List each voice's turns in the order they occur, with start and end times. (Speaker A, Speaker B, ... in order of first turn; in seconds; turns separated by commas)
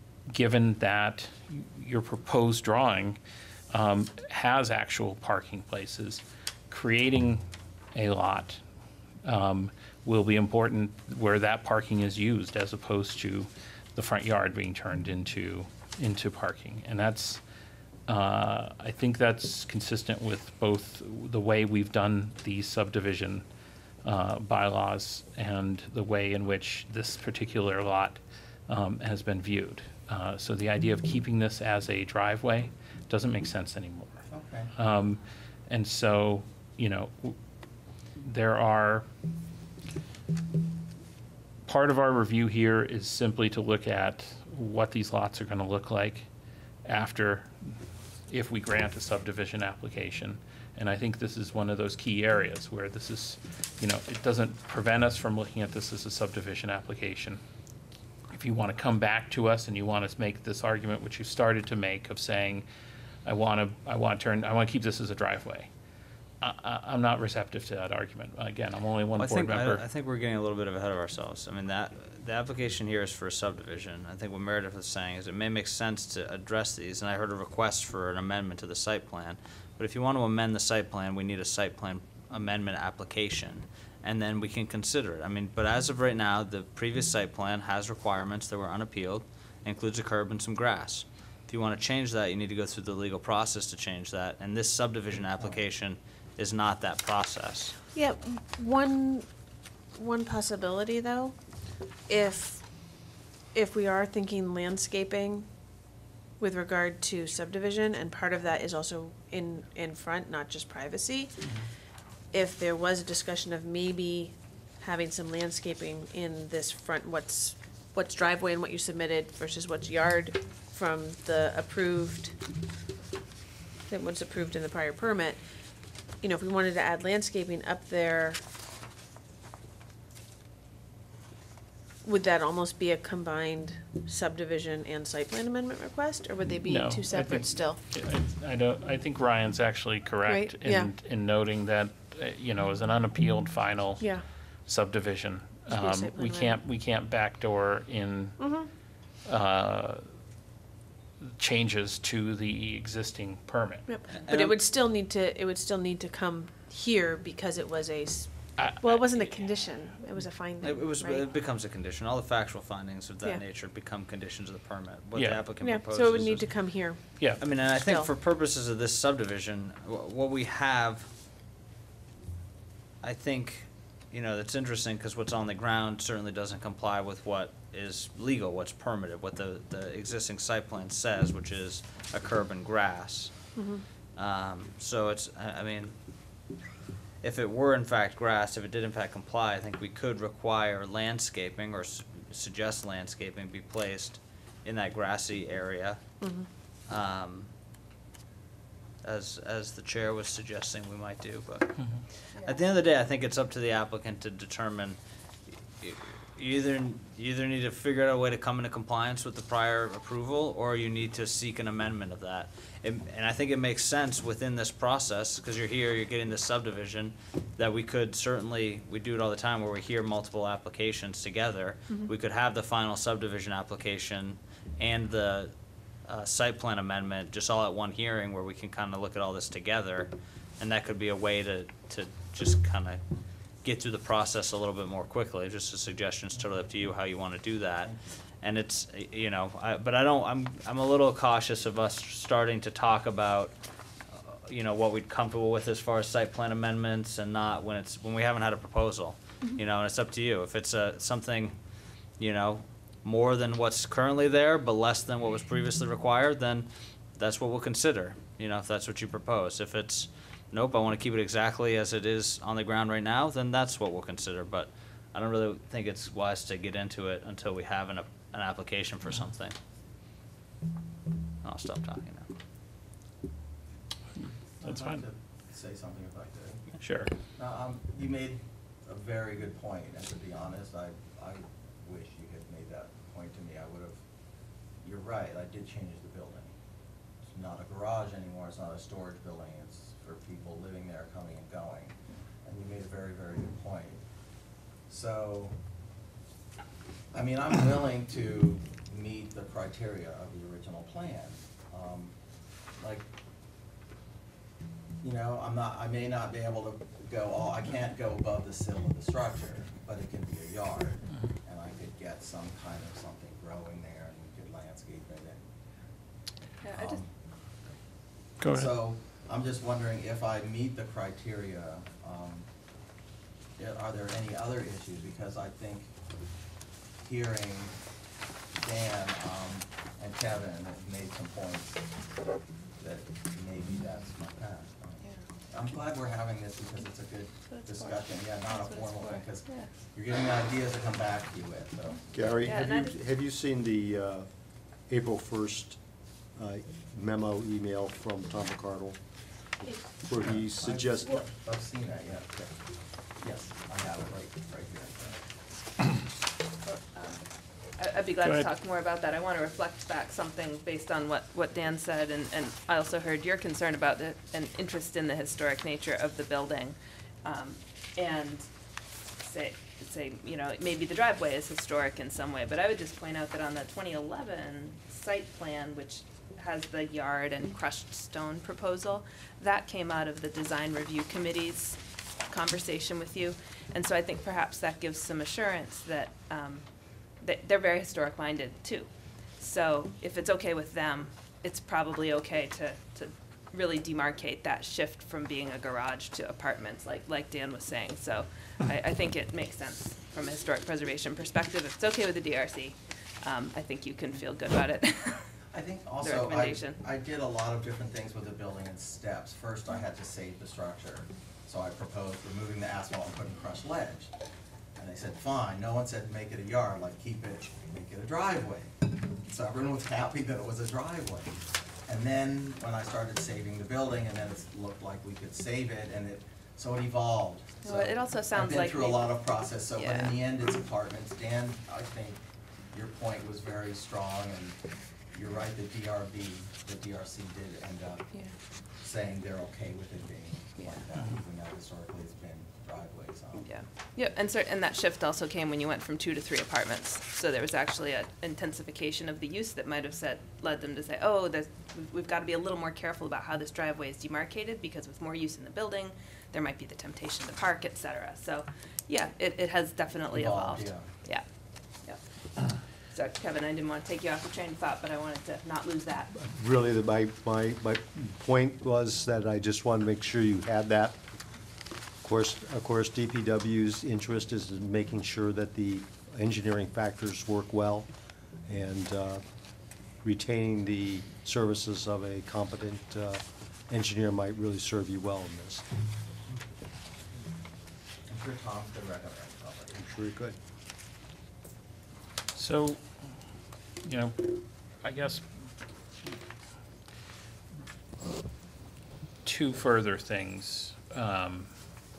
Speaker A: 0.3-3.2, Speaker A: 3.7-7.4, Speaker A: 7.9-8.6, Speaker A: 9.2-17.4, Speaker A: 18.1-23.4, Speaker A: 24.0-34.2, Speaker B: 34.3-34.7, Speaker A: 34.7-37.4, Speaker A: 38.1-39.0, Speaker A: 41.7-46.2, Speaker A: 46.8-47.5, Speaker A: 48.3-57.4, Speaker A: 58.3-62.6, Speaker A: 63.2-65.7, Speaker A: 66.4-69.8, Speaker C: 69.2-97.7, Speaker D: 97.9-99.3, Speaker D: 99.9-101.4, Speaker D: 102.1-103.0, Speaker D: 103.5-105.5, Speaker D: 106.4-111.4, Speaker D: 112.3-122.3, Speaker D: 123.9-125.4, Speaker D: 126.2-128.4, Speaker D: 132.0-137.8, Speaker A: 136.6-144.1, Speaker D: 140.3-140.9, Speaker A: 144.7-148.6, Speaker D: 145.7-146.6, Speaker D: 148.4-148.7, Speaker A: 149.2-150.1, Speaker A: 151.2-154.0, Speaker D: 153.9-161.2, Speaker C: 154.1-154.6, Speaker A: 158.6-159.4, Speaker C: 160.6-171.2, Speaker A: 165.1-165.4, Speaker D: 165.6-168.1, Speaker A: 167.2-167.4, Speaker C: 173.0-186.3, Speaker D: 183.6-183.8, Speaker C: 187.2-196.3, Speaker D: 196.2-196.5, Speaker C: 196.9-197.5, Speaker C: 199.0-233.0, Speaker E: 202.3-202.6, Speaker C: 233.6-269.6, Speaker C: 271.4-272.3, Speaker B: 274.6-276.8, Speaker A: 274.6-275.0, Speaker A: 276.8-277.1, Speaker B: 277.3-284.0, Speaker B: 284.8-286.5, Speaker B: 287.3-294.0, Speaker B: 294.9-295.6, Speaker B: 297.1-302.1, Speaker B: 302.8-303.1, Speaker B: 305.0-315.4, Speaker E: 316.6-317.0, Speaker B: 316.7-317.1, Speaker A: 318.4-318.7, Speaker B: 318.4-322.5, Speaker B: 323.6-325.9, Speaker B: 327.0-327.8, Speaker B: 328.6-331.8, Speaker B: 332.8-342.5, Speaker E: 337.5-339.7, Speaker F: 342.1-345.8, Speaker E: 342.4-342.9, Speaker F: 346.3-351.2, Speaker B: 350.2-352.5, Speaker B: 353.2-355.2, Speaker E: 356.6-368.5, Speaker A: 358.2-358.5, Speaker E: 369.2-405.3, Speaker B: 405.5-414.1, Speaker E: 406.0-406.8, Speaker B: 414.8-432.2, Speaker E: 427.6-429.1, Speaker E: 429.8-430.1, Speaker B: 432.7-434.6, Speaker B: 435.1-438.1, Speaker B: 438.8-443.4, Speaker E: 443.4-462.0, Speaker B: 460.1-460.9, Speaker E: 462.9-466.1, Speaker F: 466.1-471.0, Speaker F: 472.0-477.9, Speaker F: 478.4-479.2, Speaker F: 479.9-485.6, Speaker B: 488.1-489.8, Speaker F: 489.8-490.4, Speaker A: 492.3-493.1, Speaker A: 493.8-495.5, Speaker A: 499.2-501.5